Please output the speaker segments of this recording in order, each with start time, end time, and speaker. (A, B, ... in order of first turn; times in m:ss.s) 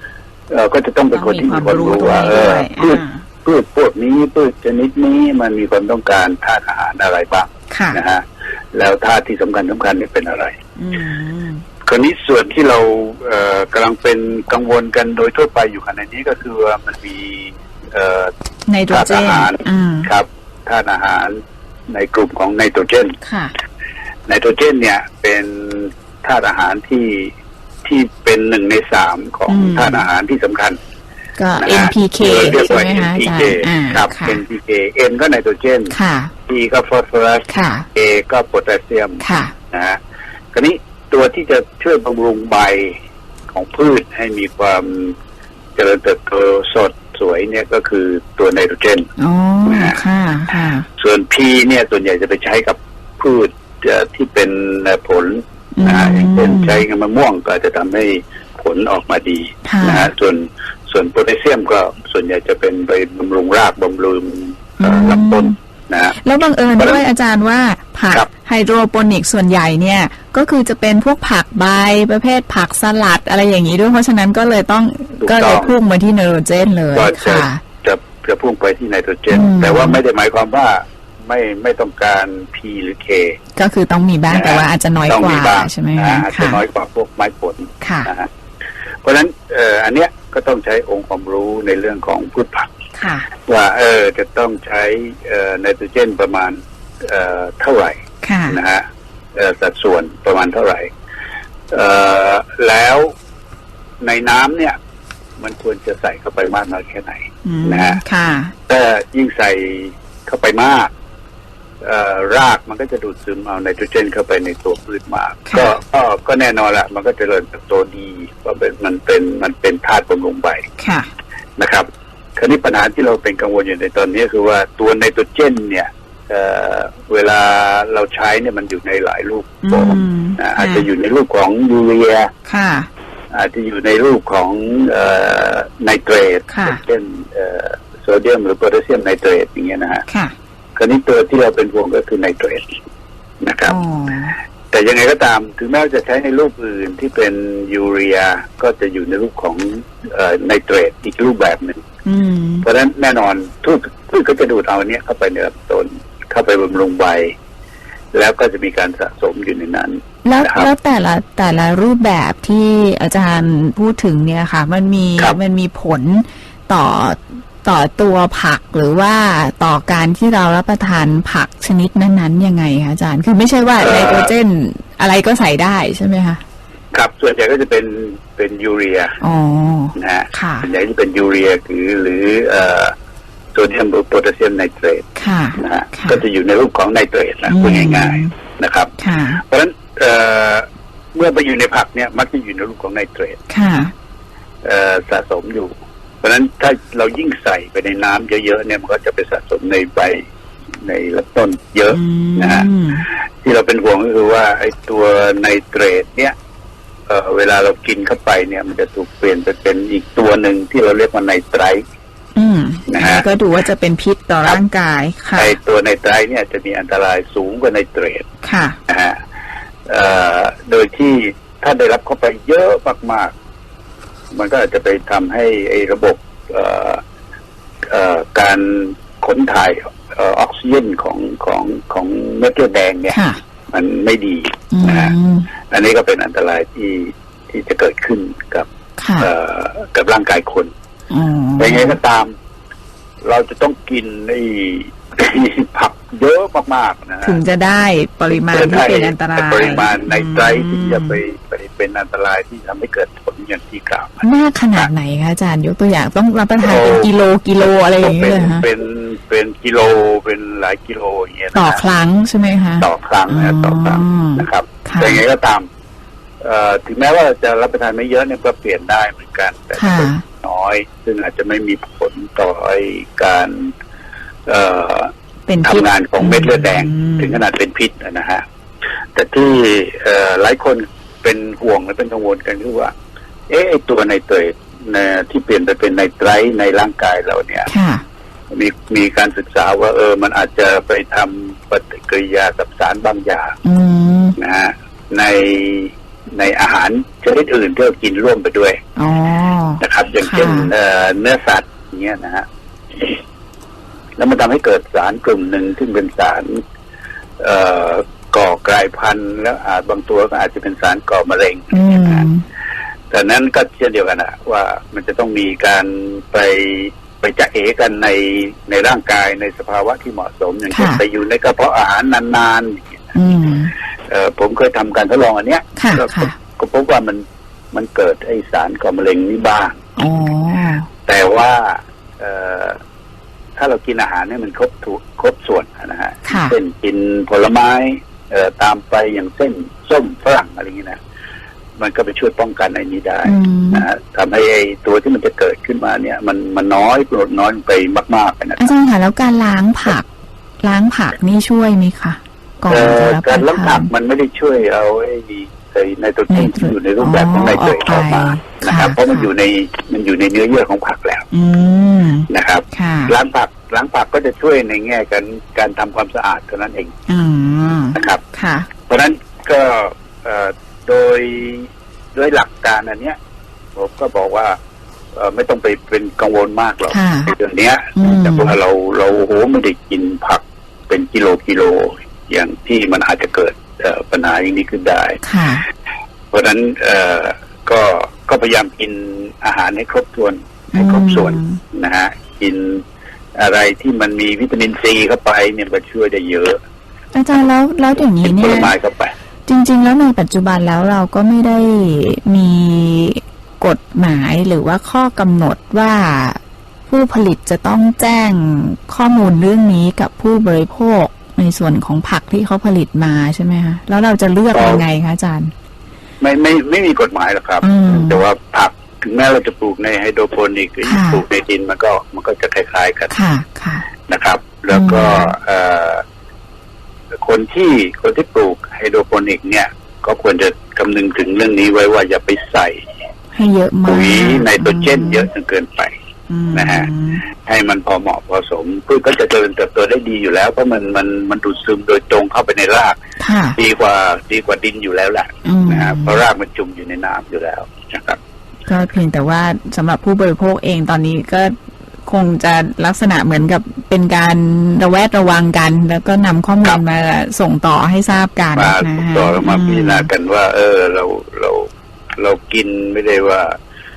0:00.5-0:10.6 A
0:01.1-0:03.2 B
0:07.7-0:08.0 B
0:10.8-0:11.6 B
0:11.8-0:18.3 A
0:18.7-0:20.1 B
0:18.9-0:21.4 A
0:21.9-0:23.2 A
0:23.2-0:23.5 B
0:24.3-0:27.3 A
0:27.8-0:30.8 A
0:29.5-0:30.0 B
0:31.4-0:34.4 B
0:31.6-0:35.9 A
0:35.9-0:36.3 B
0:36.5-0:40.0 A
0:37.5-0:37.9 B
0:39.2-0:39.5 B
0:40.5-0:43.0 A
0:43.5-0:45.1 A
0:45.8-0:49.1 A
0:49.2-0:50.8 B
0:49.6-0:50.0 A
0:51.0-1:06.2 A
0:55.8-0:56.8 B
0:59.6-1:00.1 B
1:04.8-1:05.6 B
1:06.2-1:17.6 B
1:15.2-1:15.7 A
1:16.9-1:23.4 A
1:19.3-1:20.0 B
1:23.6-1:26.6 B
1:24.3-1:28.3 A
1:27.8-1:28.1 B
1:29.0-1:32.7 A
1:33.0-1:33.3 B
1:33.5-1:38.8 A
1:38.2-1:38.6 B
1:39.4-1:40.9 A
1:41.7-1:43.1 A
1:44.0-1:44.8 A
1:45.4-1:48.0 A
1:47.4-1:48.5 B
1:48.7-1:50.9 A
1:51.8-2:00.6 A
1:55.5-1:55.7 B
2:00.8-2:01.1 B
2:01.6-2:12.3 A
2:09.6-2:10.9 B
2:12.5-2:12.9 B
2:13.3-2:20.0 A
2:16.5-2:16.8 B
2:20.1-2:20.3 B
2:20.8-2:22.7 A
2:23.4-2:23.8 A
2:23.6-2:24.4 B
2:24.7-2:31.8 A
2:32.0-2:32.6 B
2:32.6-2:37.3 A
2:38.1-2:40.7 A
2:40.2-2:56.4 B
2:53.8-2:54.3 A
2:56.9-2:59.2 A
2:59.2-3:00.7 B
2:59.9-3:02.9 A
3:03.5-3:05.0 A
3:05.2-3:06.2 B
3:05.6-3:13.4 A
3:07.5-3:08.3 B
3:09.0-3:09.4 B
3:13.5-3:13.9 B
3:14.6-3:20.2 A
3:20.8-3:22.7 A
3:21.9-3:23.0 B
3:23.4-3:26.3 A
3:27.1-3:31.8 A
3:32.4-3:35.6 B
3:32.9-3:33.2 A
3:35.4-3:38.2 A
3:38.4-3:38.8 B
3:38.9-3:39.2 A
3:39.9-3:43.3 A
3:44.3-3:47.0 A
3:47.9-3:53.2 A
3:53.1-3:53.4 B
3:53.7-3:55.1 A
3:54.7-3:55.5 B
3:55.7-3:58.7 A
3:59.0-3:59.3 B
3:59.2-4:00.7 A
4:01.1-4:02.0 B
4:01.6-4:02.3 A
4:03.2-4:07.4 A
4:07.2-4:11.2 B
4:08.5-4:14.2 A
4:14.2-4:18.6 B
4:16.6-4:17.1 A
4:18.0-4:21.8 A
4:21.5-4:25.2 B
4:22.8-4:25.7 A
4:26.4-4:33.7 A
4:29.7-4:30.2 B
4:34.5-4:35.1 A
4:35.5-4:37.4 B
4:35.6-4:38.4 A
4:39.1-4:42.9 A
4:43.5-4:47.7 A
4:47.7-4:48.0 B
4:48.5-4:53.6 A
4:53.6-4:54.4 B
4:54.4-4:58.8 A
4:59.0-5:00.7 B
4:59.8-5:02.4 A
5:04.2-5:06.6 A
5:07.4-5:12.2 A
5:11.7-5:12.4 B
5:13.1-5:23.1 A
5:20.7-5:21.0 B
5:23.1-5:23.7 B
5:24.1-5:29.8 A
5:25.8-5:26.3 B
5:30.0-5:30.9 B
5:31.1-5:32.8 A
5:33.6-5:41.0 A
5:36.2-5:36.6 B
5:41.8-5:48.7 A
5:43.2-5:43.8 B
5:48.6-5:50.0 B
5:50.6-5:53.9 B
5:52.7-6:01.3 A
5:56.3-5:59.3 B
6:01.3-6:03.1 B
6:02.3-6:06.9 A
6:07.1-6:08.7 B
6:07.9-6:08.2 A
6:08.9-6:13.2 A
6:13.8-6:14.6 A
6:15.1-6:25.2 A
6:16.9-6:17.3 B
6:18.0-6:18.5 B
6:25.2-6:25.6 B
6:26.3-6:32.8 A
6:30.7-6:31.6 B
6:33.4-6:36.6 A
6:37.1-6:38.7 B
6:38.2-6:39.1 A
6:39.5-6:55.5 B
6:54.5-6:54.8 A
6:56.2-7:03.1 A
6:57.6-6:58.2 B
7:00.8-7:01.2 B
7:03.1-7:03.8 B
7:04.1-7:06.0 A
7:04.7-7:05.3 B
7:07.1-7:12.8 A
7:13.3-7:15.3 B
7:13.8-7:15.9 A
7:16.3-7:17.2 B
7:16.5-7:16.9 A
7:17.4-7:23.0 A
7:23.2-7:23.6 B
7:23.6-7:28.2 A
7:25.4-7:26.2 B
7:28.7-7:31.5 B
7:32.0-7:40.1 B
7:38.6-7:43.6 A